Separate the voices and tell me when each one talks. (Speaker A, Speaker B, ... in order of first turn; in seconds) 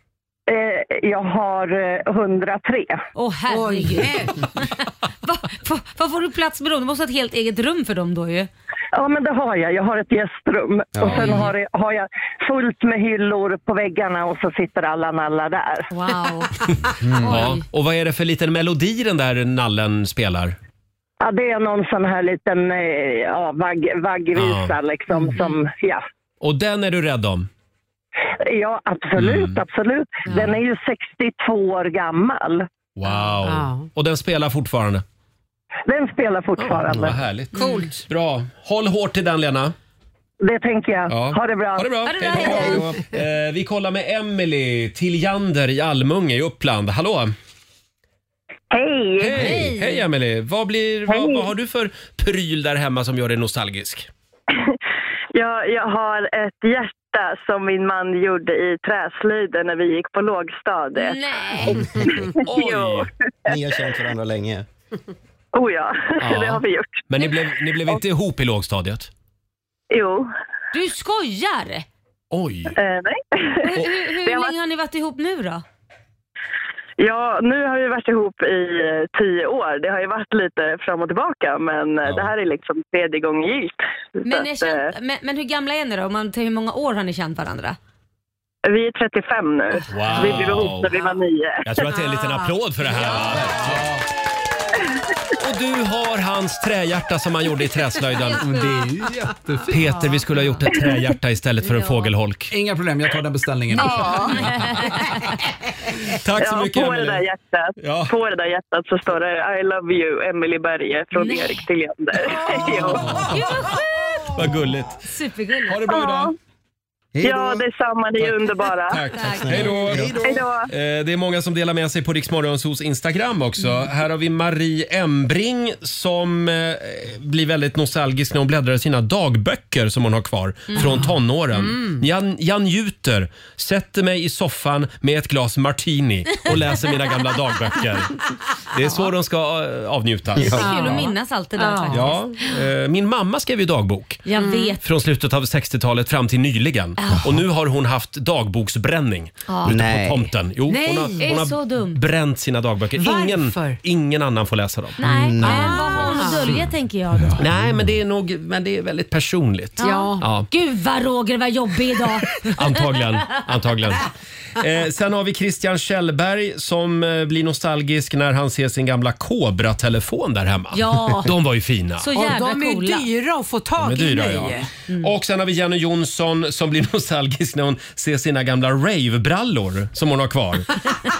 Speaker A: 0.5-3.0, 8.9-15.9, 21.2-26.0, 28.4-32.7, 35.9-37.2, 40.4-41.9, 48.7-49.3
Speaker B: 3.1-8.5, 15.9-16.6, 17.1-17.6, 37.5-37.9, 42.0-42.9, 49.3-50.0, 61.0-62.1, 70.7-71.8, 73.6-75.6, 84.2-87.8, 101.6-102.1, 103.7-105.1, 111.1-111.6, 113.0-114.0, 115.1-115.9, 119.1-119.9, 140.5-142.6, 144.2-144.8, 147.0-147.3, 149.5-149.7, 151.2-152.0, 155.0-157.4, 159.8-162.5, 170.7-171.3, 172.0-173.1
Speaker C: 3.5-4.3, 30.3-30.5, 33.4-33.9, 37.5-38.0, 131.6-131.9, 140.6-142.2, 144.3-144.8, 150.7-151.3, 152.9-153.8, 155.4-156.5, 159.8-160.3, 172.1-174.7
Speaker D: 10.9-11.3, 63.5-64.7, 119.6-120.0, 140.3-140.6, 149.6-150.3, 155.0-155.8
Speaker E: 17.0-17.4, 93.1-94.0, 98.2-100.0, 102.5-104.7, 112.8-113.3, 117.1-117.7, 119.5-120.5, 157.2-157.9
Speaker F: 17.2-20.6, 24.3-24.8, 26.4-27.5, 29.2-29.6, 33.0-35.0, 36.6-39.7, 41.1-47.3, 49.2-54.1, 62.4-63.1, 66.2-69.1, 72.3-72.8, 89.9-90.9, 91.6-93.9, 95.4-98.6, 99.7-102.5, 106.2-107.2, 107.8-108.1, 112.9-113.3, 114.3-115.0, 115.7-116.3, 118.9-120.1, 120.7-138.1, 138.7-140.7, 141.9-144.2, 144.8-156.2, 157.4-160.5, 162.5-164.0, 164.6-172.1, 173.8-180.8
Speaker G: 55.3-63.1, 65.5-68.0, 69.9-70.3, 72.8-74.5, 77.0-84.9, 88.6-91.8, 106.4-113.1, 115.9-116.3, 117.2-119.0, 120.2-120.7